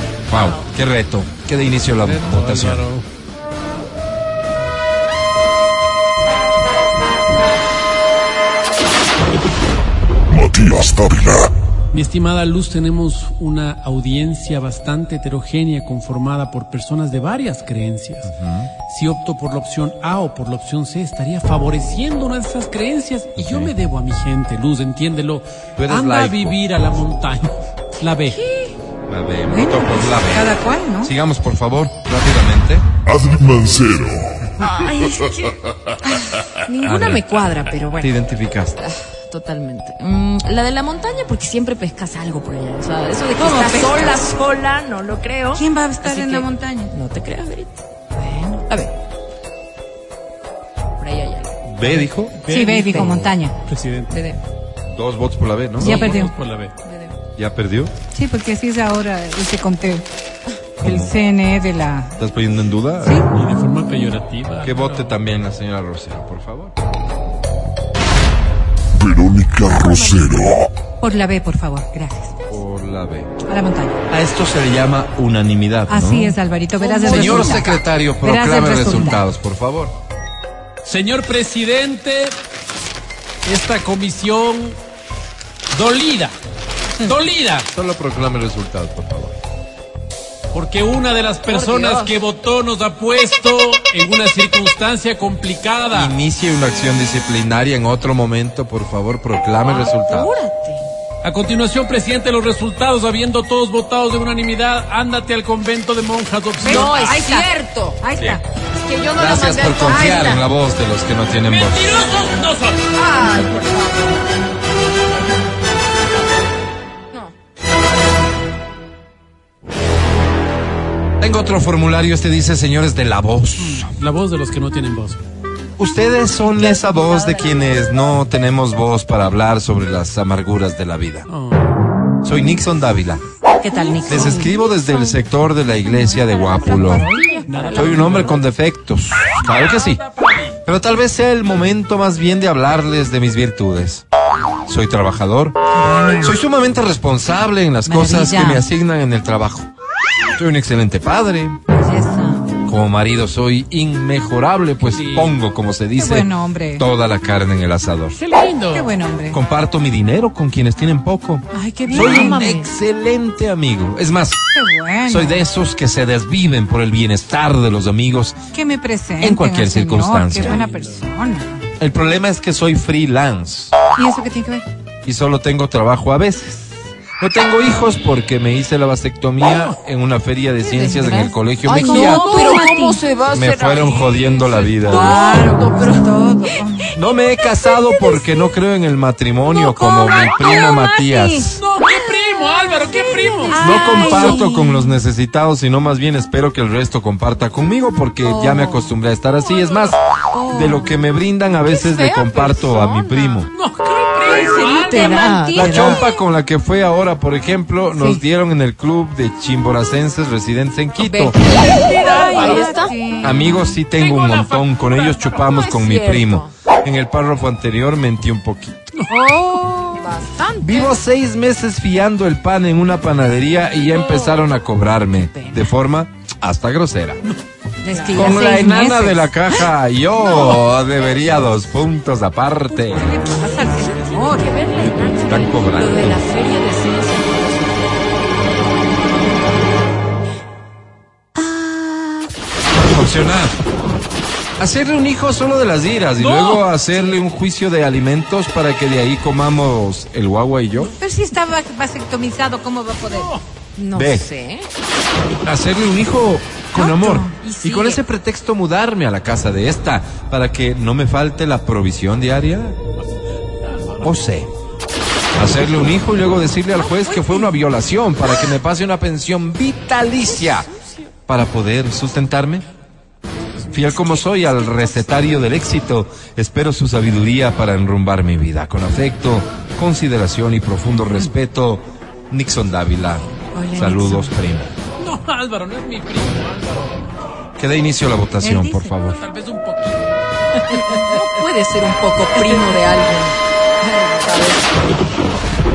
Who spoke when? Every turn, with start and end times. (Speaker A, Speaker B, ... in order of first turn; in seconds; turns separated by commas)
Speaker A: 0.3-2.9, Speaker B: 2.0-3.0, Speaker C: 10.3-11.5, Speaker B: 11.9-18.3, Speaker A: 18.2-18.7, Speaker B: 18.9-28.4, Speaker A: 23.4-23.7, Speaker A: 25.8-26.9, Speaker D: 28.2-28.7, Speaker A: 29.1-32.9, Speaker E: 29.5-31.1, Speaker C: 33.1-34.4, Speaker D: 34.6-38.2, Speaker A: 36.8-37.3, Speaker A: 38.0-38.8, Speaker D: 38.8-48.9, Speaker E: 43.4-44.2, Speaker E: 45.5-46.9, Speaker E: 48.2-48.6, Speaker D: 51.0-52.0, Speaker A: 51.6-52.4, Speaker B: 52.4-54.2, Speaker E: 52.5-53.5, Speaker D: 52.9-53.2, Speaker A: 52.9-53.3, Speaker D: 54.1-54.4, Speaker A: 54.9-56.0, Speaker E: 55.8-56.3, Speaker B: 55.8-56.8, Speaker D: 55.9-56.2, Speaker D: 56.8-57.2, Speaker A: 57.4-57.9, Speaker E: 58.1-60.1, Speaker A: 60.8-61.2, Speaker E: 60.8-62.2, Speaker A: 62.2-63.2, Speaker E: 63.0-63.3, Speaker B: 63.3-65.2, Speaker A: 64.6-66.7, Speaker C: 69.0-70.6, Speaker D: 69.8-70.3, Speaker E: 71.0-72.6, Speaker A: 72.5-73.3, Speaker E: 73.5-74.0, Speaker A: 74.1-76.4, Speaker E: 75.9-79.2, Speaker A: 77.0-79.9, Speaker B: 77.1-77.4, Speaker B: 80.8-82.4, Speaker B: 83.5-84.8, Speaker B: 85.7-86.3, Speaker B: 87.0-87.7, Speaker A: 87.7-89.3, Speaker B: 90.5-96.2, Speaker D: 91.5-92.1, Speaker A: 95.9-100.3, Speaker D: 99.6-100.9, Speaker B: 101.2-107.2, Speaker E: 106.6-108.4, Speaker D: 106.7-108.0, Speaker D: 108.7-110.4, Speaker A: 109.2-111.9, Speaker E: 109.8-110.3, Speaker B: 111.5-112.9, Speaker D: 112.9-114.2, Speaker A: 121.2-123.9, Speaker B: 123.6-125.2, Speaker A: 125.8-131.3, Speaker D: 126.5-128.1, Speaker B: 131.3-131.7, Speaker A: 132.2-133.2, Speaker E: 133.6-134.5, Speaker D: 133.7-135.2, Speaker A: 134.1-137.1, Speaker B: 134.1-134.4, Speaker E: 135.9-137.7, Speaker D: 136.2-138.4, Speaker B: 137.5-138.4, Speaker A: 137.7-140.0, Speaker B: 139.4-140.0, Speaker A: 140.7-144.0, Speaker A: 144.7-145.6, Speaker E: 145.7-146.4, Speaker A: 146.2-149.7, Speaker E: 147.8-148.7, Speaker A: 150.4-151.6, Speaker E: 151.7-152.5, Speaker A: 152.7-158.2, Speaker B: 154.8-155.4, Speaker E: 156.0-156.9, Speaker B: 158.1-158.9, Speaker E: 158.7-159.4, Speaker A: 159.3-164.4, Speaker E: 161.5-162.5, Speaker D: 161.9-162.7, Speaker E: 164.5-165.5, Speaker A: 165.1-168.4, Speaker E: 168.5-171.7, Speaker A: 169.2-170.6, Speaker B: 170.4-171.0, Speaker A: 171.8-173.7, Speaker E: 174.0-174.7, Speaker A: 175.1-182.4, Speaker E: 180.6-183.0, Speaker D: 181.7-186.1, Speaker B: 182.0-182.6, Speaker A: 183.3-185.2, Speaker E: 184.8-186.9, Speaker A: 187.0-191.6, Speaker D: 187.4-188.2, Speaker E: 189.5-191.5, Speaker B: 191.6-194.2, Speaker D: 192.0-193.8, Speaker E: 193.5-195.1, Speaker A: 193.6-203.5, Speaker E: 198.3-198.8, Speaker D: 198.4-198.7, Speaker D: 200.3-200.7, Speaker D: 201.7-203.4, Speaker B: 203.5-205.4, Speaker D: 204.2-206.0, Speaker E: 204.3-206.1, Speaker A: 205.6-211.4, Speaker E: 207.9-208.2, Speaker D: 211.0-212.9, Speaker B: 211.9-212.7, Speaker E: 212.0-213.8, Speaker A: 213.2-218.8, Speaker B: 213.9-215.4, Speaker D: 215.4-216.5, Speaker E: 219.1-221.0, Speaker D: 219.8-220.5, Speaker A: 220.6-227.2, Speaker D: 223.9-224.4, Speaker E: 225.2-225.7, Speaker E: 227.8-229.7, Speaker D: 227.9-228.3, Speaker A: 228.1-233.1, Speaker E: 230.2-230.6, Speaker E: 232.8-234.6, Speaker D: 233.2-238.1, Speaker A: 234.7-236.2, Speaker E: 241.4-242.2, Speaker A: 242.9-243.6, Speaker A: 244.6-251.0, Speaker B: 246.2-246.7, Speaker D: 246.8-247.3, Speaker E: 250.8-253.4, Speaker D: 253.8-254.7, Speaker A: 253.9-254.3, Speaker A: 255.4-262.8, Speaker E: 256.7-257.3, Speaker D: 257.4-258.0, Speaker A: 264.0-264.5, Speaker A: 265.4-270.7, Speaker D: 267.0-267.5, Speaker A: 271.3-272.6, Speaker B: 273.7-274.9, Speaker A: 273.7-284.7, Speaker D: 283.5-284.3, Speaker B: 285.0-287.0, Speaker A: 287.6-289.2, Speaker E: 288.4-289.0, Speaker B: 289.1-290.1, Speaker D: 290.7-294.7